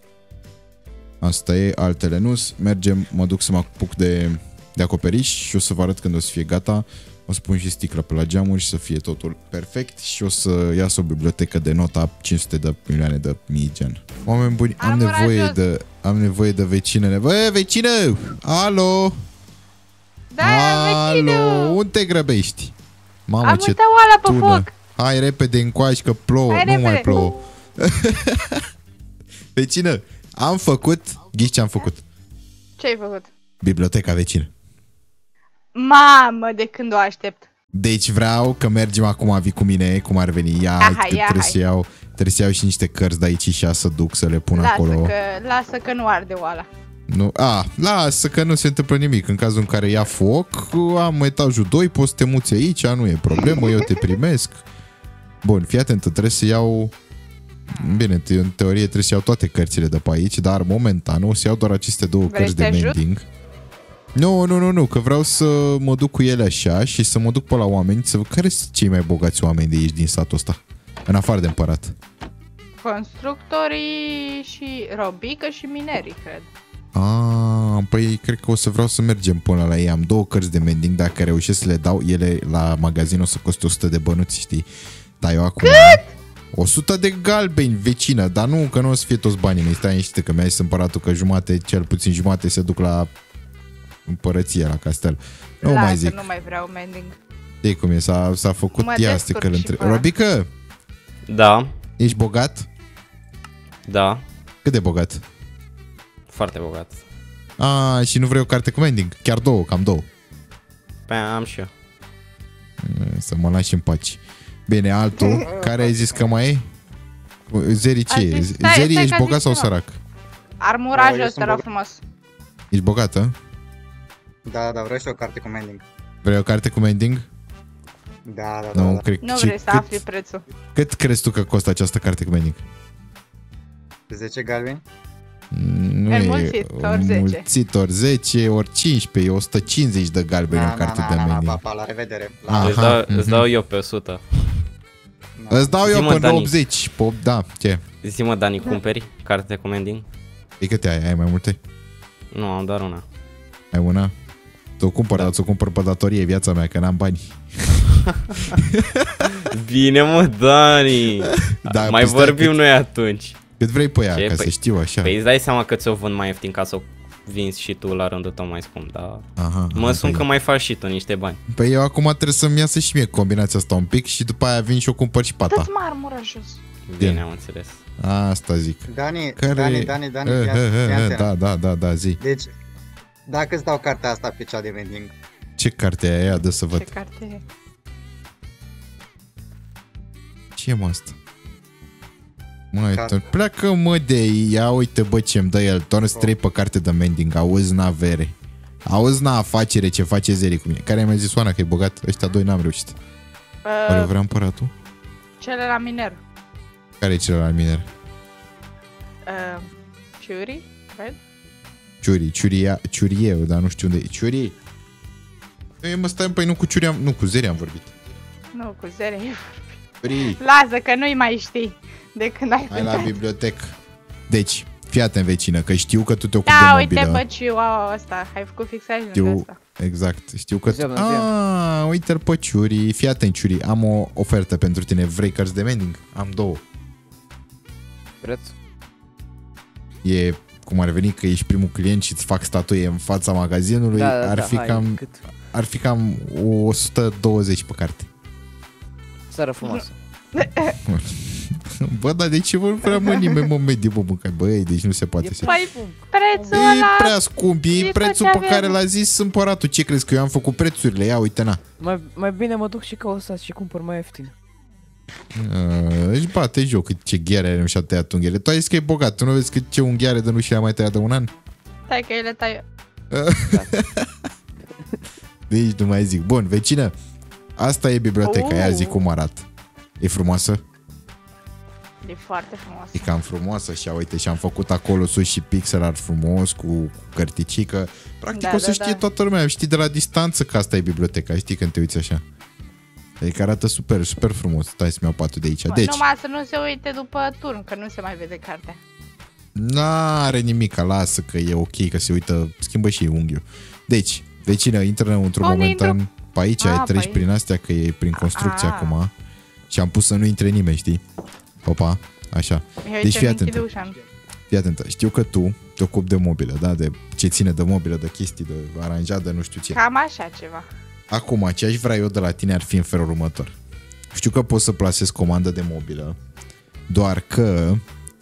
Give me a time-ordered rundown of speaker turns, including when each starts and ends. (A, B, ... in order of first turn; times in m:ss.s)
0:01.2-0:19.2 A
0:14.8-0:15.6 B
0:20.3-0:21.8 B
0:20.4-0:22.7 A
0:23.3-0:28.6 A
0:23.4-0:24.7 B
0:26.5-0:27.3 B
0:29.6-0:32.0 A
0:32.8-0:33.3 B
0:33.6-0:34.5 A
0:35.8-0:37.5 B
0:37.7-0:45.1 A
0:40.8-0:41.6 B
0:44.6-0:46.7 B
0:47.1-0:54.6 A
0:53.6-0:53.9 B
0:55.4-0:56.9 A
0:57.7-1:03.3 A
0:57.8-0:58.0 B
1:02.3-1:03.0 B
1:04.2-1:12.0 A
1:12.8-1:16.5 B
1:17.0-1:24.7 A
1:25.2-1:33.1 A
1:25.6-1:26.0 B
1:34.1-1:36.2 A
1:35.6-1:37.2 B
1:37.6-1:40.5 A
1:38.7-1:40.1 B
1:41.3-1:41.7 C
1:42.0-1:42.7 A
1:43.9-1:44.2 C
1:44.6-1:45.2 A
1:46.3-1:47.0 C
1:47.6-1:50.1 A
1:51.1-1:51.7 C
1:52.8-1:56.7 A
1:55.3-1:56.4 D
1:57.5-2:00.0 A
1:58.1-1:59.7 B
2:00.6-2:02.0 B
2:00.9-2:01.6 D
2:02.7-2:03.4 A
2:04.4-2:05.8 D
2:06.2-2:07.3 A
2:08.2-2:09.1 D
2:08.7-2:10.0 A
2:09.2-2:10.4 B
2:10.7-2:12.6 A
2:14.1-2:14.8 D
2:15.5-2:21.6 A
2:16.1-2:17.4 B
2:20.5-2:23.0 D
2:22.5-2:23.5 A
2:22.6-2:24.2 C
2:25.4-2:25.8 D
2:25.5-2:27.8 A
2:25.8-2:26.5 C
2:28.0-2:30.1 C
2:30.6-2:31.6 A
2:32.3-2:33.0 C
2:33.7-2:34.1 A
2:34.8-2:38.0 A
2:38.5-2:39.3 A
2:39.3-2:43.4 C
2:41.4-2:42.6 A
2:43.6-2:45.2 A
2:44.1-2:51.4 C
2:49.4-2:50.3 A
2:51.5-2:55.7 A
2:55.5-2:56.6 B
2:56.9-2:57.8 C
2:57.0-2:57.2 A
2:58.0-3:02.2 A
2:58.9-3:01.3 D
3:02.2-3:02.5 D
3:03.3-3:05.1 D
3:05.6-3:06.9 A
3:06.7-3:07.4 B
3:10.6-3:11.2 A
3:12.7-3:18.3 A
3:12.9-3:13.2 D
3:18.8-3:23.0 A
3:23.6-3:24.1 B
3:23.9-3:24.7 A
3:25.4-3:26.2 B
3:27.0-3:27.9 A
3:29.3-3:31.2 B
3:32.0-3:34.6 A
3:35.8-3:37.9 A
3:38.5-3:43.1 B
3:40.0-3:40.4 A
3:42.7-3:43.8 A
3:44.3-3:47.2 A
3:46.5-3:49.6 B
3:49.1-3:56.6 A
3:50.7-3:51.3 E
3:58.2-3:58.6 E
4:00.0-4:08.1 A
4:03.9-4:05.2 E
4:09.3-4:10.0 E
4:09.6-4:10.8 B
4:10.8-4:15.5 A
4:13.0-4:13.3 B
4:15.2-4:16.8 E
4:15.4-4:17.2 B
4:16.5-4:21.6 A
4:17.7-4:18.8 B
4:21.8-4:24.4 E
4:25.3-4:31.3 A
4:31.9-4:32.6 B
4:33.1-4:34.1 A
4:35.5-4:36.9 A
4:37.6-4:39.5 A
4:38.2-4:39.0 B
4:40.0-4:40.6 A
4:42.0-4:43.2 B
4:42.9-4:52.2 A
4:48.3-4:49.0 B
4:53.2-4:56.0 A
4:55.7-4:58.8 B
4:59.6-5:09.1 A
5:05.4-5:06.0 B
5:06.6-5:07.2 B
5:08.2-5:09.0 B
5:09.7-5:11.0 A
5:11.6-5:13.6 A
5:12.8-5:14.0 B
5:14.5-5:19.8 A
5:19.7-5:20.7 B
5:21.1-5:23.5 A
5:24.1-5:26.2 A
5:26.9-5:27.8 A